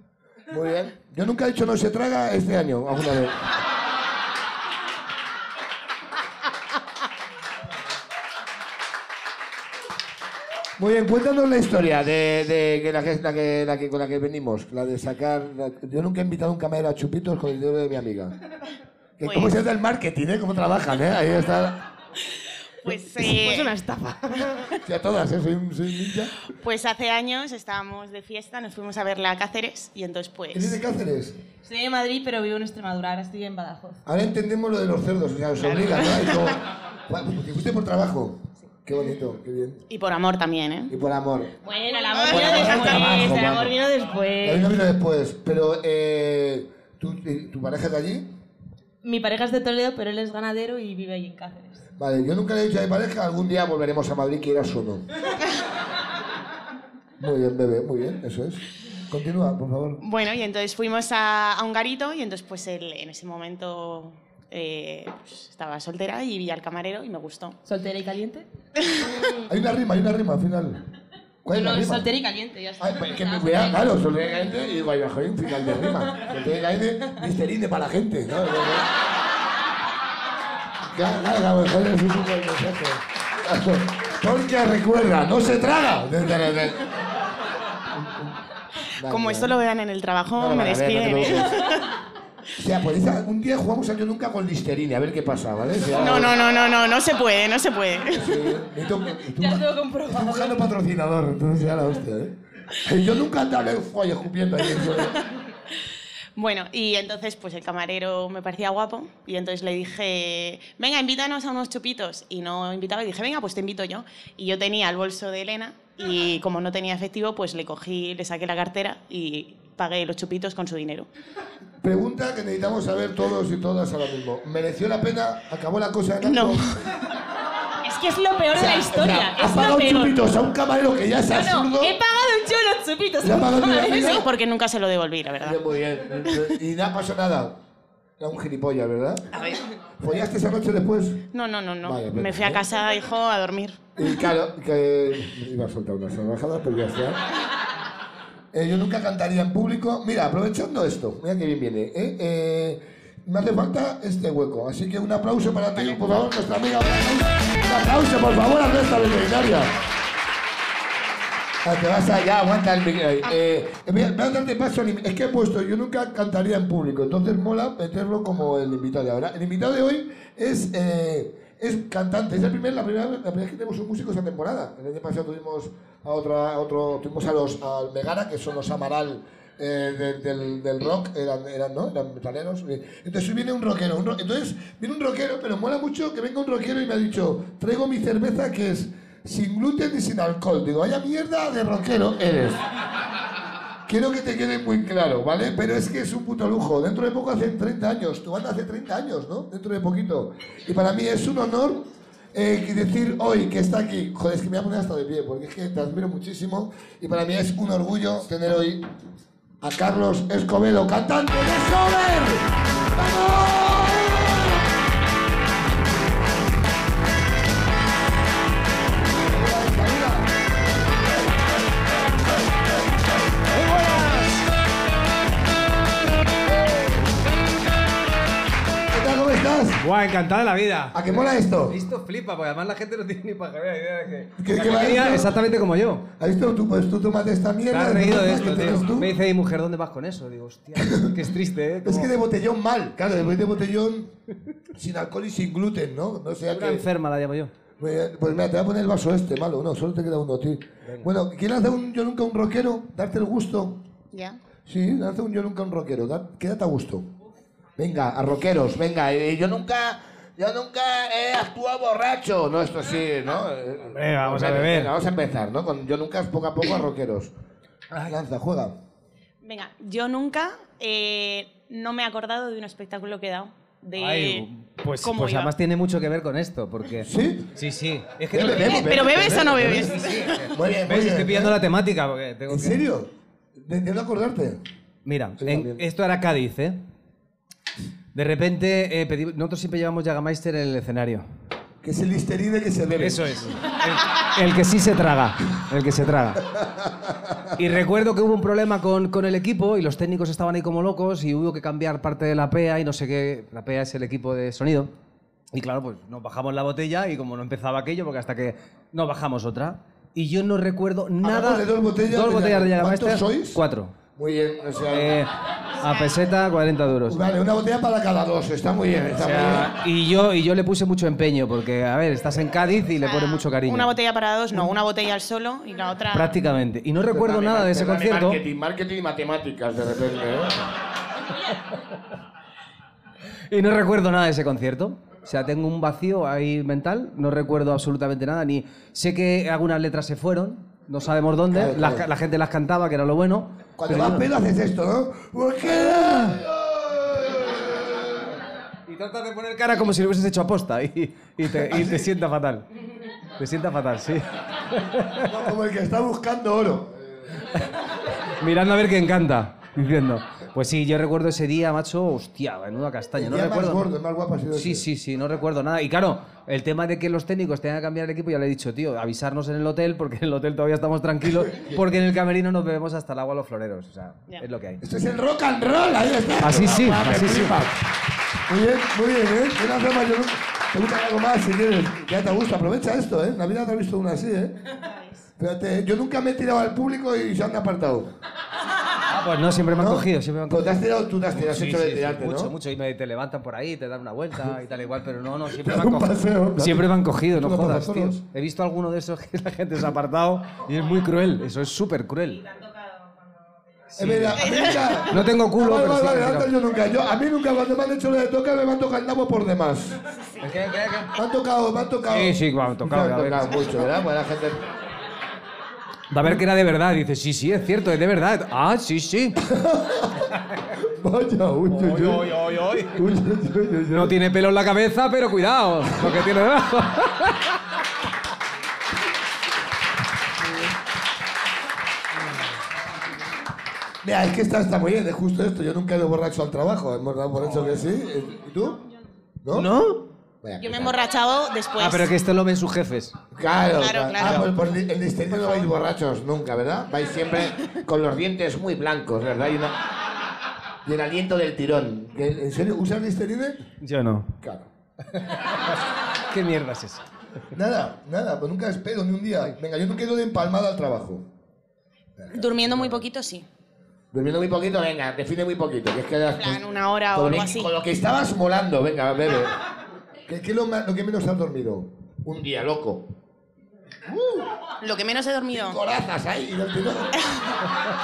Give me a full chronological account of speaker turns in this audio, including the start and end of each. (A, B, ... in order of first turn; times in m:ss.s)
0:00.5-0:03.4 A
0:10.8-0:18.4 A
0:19.2-0:21.8 A
0:19.2-0:19.5 B
0:22.8-0:23.8 B
0:23.2-0:24.7 C
0:24.8-0:26.3 A
0:26.6-0:30.8 B
0:30.5-0:31.4 A
0:31.6-0:34.0 C
0:34.1-0:39.8 A
0:35.6-0:36.6 B
0:39.9-0:40.9 B
0:40.9-0:41.5 A
0:41.6-0:44.7 C
0:41.9-0:43.6 B
0:42.2-0:43.7 A
0:44.4-0:48.3 A
0:49.0-0:51.8 C
0:52.0-0:55.1 A
0:57.2-1:00.0 A
1:00.0-1:07.6 B
1:07.6-1:08.4 C
1:09.4-1:10.9 A
1:11.4-1:12.1 A
1:11.5-1:14.0 C
1:12.8-1:18.9 A
1:20.9-1:26.9 A
1:27.9-1:28.4 A
1:29.0-1:29.6 A
1:29.0-1:31.9 B
1:30.3-1:31.6 A
1:32.6-1:36.4 A
1:35.9-1:38.5 B
1:38.1-1:45.2 A
1:39.3-1:40.7 C
1:46.4-2:01.1 B
2:01.8-2:06.7 A
2:06.2-2:06.7 B
2:07.8-2:10.2 C
2:08.5-2:12.0 A
2:11.3-2:14.3 C
2:13.2-2:14.3 A
2:13.7-2:15.6 B
2:15.4-2:17.6 A
2:18.2-2:19.4 A
2:20.0-2:21.2 A
2:21.3-2:24.0 B
2:21.8-2:22.6 A
2:24.0-2:27.2 A
2:28.5-2:39.8 A
2:41.6-3:12.6 A
3:13.9-3:28.9 A
3:29.6-3:34.6 A
3:39.1-3:40.4 A
3:43.5-3:44.5 D
3:48.9-3:49.8 A
3:49.8-3:56.1 D
3:50.9-3:51.8 A
3:54.4-3:55.4 A
3:56.2-3:59.2 A
3:57.7-4:02.1 D
4:00.8-4:01.3 A
4:01.8-4:04.1 A
4:04.8-4:06.9 A
4:06.5-4:07.5 D
4:07.8-4:13.8 A
4:10.8-4:11.1 D
4:14.1-4:14.4 B
4:14.7-4:17.1 A
4:17.8-4:27.3 A
4:23.9-4:24.9 D
4:28.0-4:28.8 A
4:29.4-4:35.5 B
4:34.0-4:42.9 D
4:37.0-4:37.5 A
4:38.3-4:41.6 A
4:38.5-4:40.5 B
4:42.5-4:44.6 A
4:45.0-4:46.8 D
4:45.4-4:45.8 A
4:48.1-4:51.3 D
4:51.8-4:53.6 A
4:53.0-4:56.4 D
4:56.6-4:57.3 A
4:57.6-5:04.9 D
5:05.5-5:14.0 D
5:11.2-5:13.6 A
5:14.2-5:15.2 A
5:14.9-5:17.2 D
5:15.8-5:16.2 B
5:17.1-5:19.8 A
5:19.1-5:24.0 D
5:23.0-5:26.4 B
5:26.1-5:28.4 D
5:27.0-5:30.7 A
5:33.5-5:44.3 D
5:41.5-5:42.1 A
5:43.8-5:48.1 A
5:46.1-5:46.4 D
5:48.9-5:52.7 D
5:51.5-5:52.1 A
5:53.4-5:55.3 D
5:55.2-5:57.4 A
5:58.4-6:03.9 D
6:03.2-6:04.9 A
6:04.5-6:14.8 D
6:14.8-6:17.8 A
6:16.4-6:17.7 D
6:18.5-6:24.6 A
6:25.4-6:28.2 A
6:29.1-6:42.5 D
6:29.7-6:32.6 A
6:35.5-6:38.2 A
6:43.9-6:46.5 D
6:44.0-6:50.0 A
6:44.4-6:45.0 B
6:50.4-6:51.1 D
6:51.1-6:54.6 A
6:52.1-6:53.7 D
6:56.1-6:59.4 D
6:59.5-7:00.2 A
7:00.8-7:02.4 A
7:01.7-7:03.1 D
7:02.9-7:04.2 A
7:03.9-7:07.6 D
7:14.0-7:18.8 A
7:17.4-7:17.8 D
7:19.4-7:19.7 A
7:19.5-7:20.1 D
7:20.4-7:21.0 A
7:20.6-7:22.1 B
7:21.8-7:23.2 D
7:23.3-7:29.8 A
7:23.8-7:24.5 B
7:24.2-7:24.5 D
7:30.8-7:33.7 A
7:33.8-7:34.3 D
7:34.4-7:34.7 A
7:35.2-7:35.5 D
7:36.3-7:37.0 D
7:37.5-7:41.3 A
7:42.2-7:43.0 A
7:42.3-7:43.5 B
7:44.1-7:49.6 A
7:46.4-7:47.7 B
7:50.3-7:53.1 A
7:54.8-7:55.8 B
7:55.5-7:57.1 A